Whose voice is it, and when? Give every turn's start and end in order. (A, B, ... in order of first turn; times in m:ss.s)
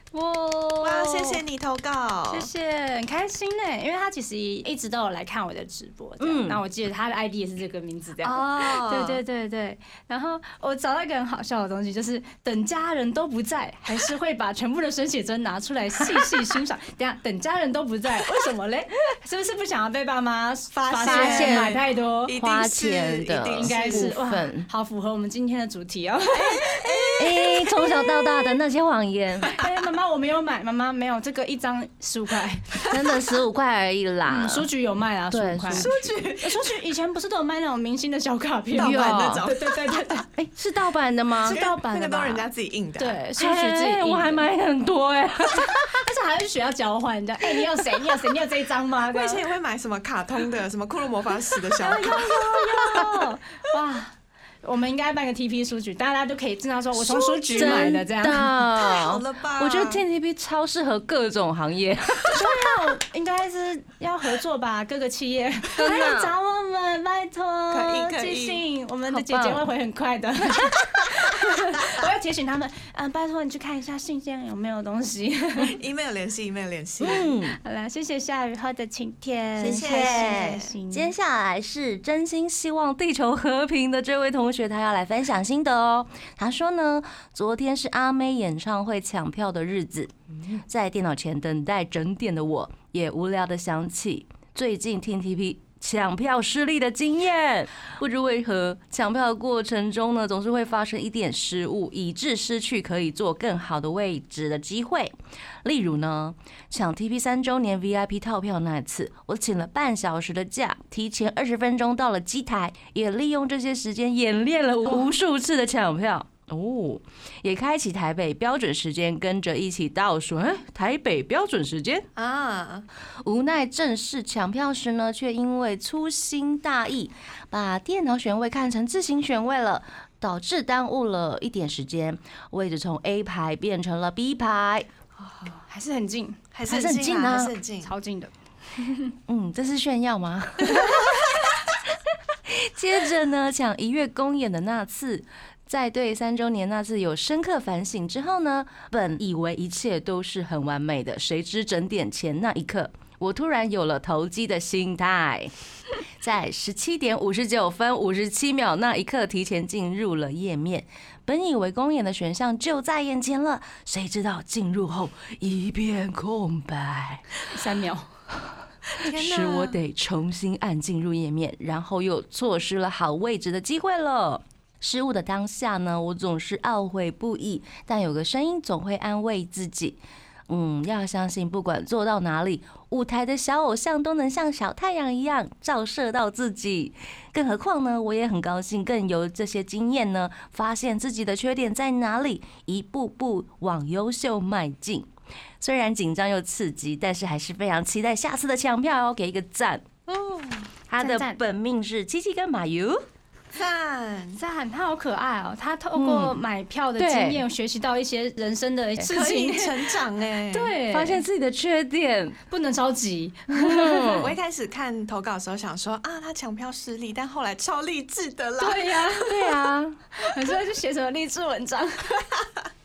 0:00.2-0:01.2 A
0:00.2-0:01.0 B
0:00.8-0:02.5 C
0:02.3-0:22.4 B
0:06.2-0:06.6 A
0:08.2-0:09.2 C
0:20.7-0:24.1 C
0:21.0-0:21.8 A
0:22.3-0:24.7 A
0:23.5-0:28.5 B
0:26.3-0:27.6 C
0:27.2-0:29.6 A
0:29.5-0:33.1 B
0:32.9-0:34.7 A
0:34.3-0:40.3 B
0:35.3-0:35.9 A
0:35.7-0:36.8 C
0:38.7-0:40.2 C
0:38.8-0:39.5 A
0:40.4-0:41.6 A
0:41.4-0:42.5 B
0:41.4-0:43.2 C
0:43.0-0:44.5 B
0:43.4-0:45.9 A
0:45.6-0:49.4 B
0:49.1-0:53.3 C
0:51.8-0:58.5 B
0:57.0-0:58.0 C
0:57.5-1:02.5 A
0:58.8-1:00.0 C
1:02.2-1:15.8 B
1:05.7-1:06.3 A
1:07.7-1:08.6 C
1:09.1-1:09.7 A
1:11.0-1:12.1 C
1:15.6-1:17.3 C
1:17.0-1:17.6 A
1:17.6-1:21.1 B
1:19.6-1:20.7 C
1:19.6-1:45.1 A
1:45.6-2:02.1 A
2:02.1-2:02.9 C
2:03.2-2:14.9 A
2:15.5-2:16.4 B
2:16.5-2:17.9 C
2:16.7-2:17.5 A
2:17.8-2:19.1 B
2:19.3-2:21.5 A
2:22.5-2:35.5 A
2:36.2-2:47.2 A
2:47.5-2:48.1 B
2:48.9-2:49.8 C
2:49.0-3:00.0 A
3:00.5-3:15.1 A
3:15.6-3:19.8 A
3:20.1-3:20.7 C
3:20.9-3:23.0 A
3:21.0-3:21.4 B
3:23.5-3:24.4 C
3:24.4-3:31.2 B
3:26.0-3:26.4 A
3:27.0-3:27.4 A
3:29.1-3:30.8 C
3:30.9-3:32.4 A
3:32.5-3:34.2 B
3:33.5-3:34.3 A
3:34.1-3:39.3 C
3:38.6-3:39.6 B
3:39.2-3:40.0 A
3:40.1-3:42.3 B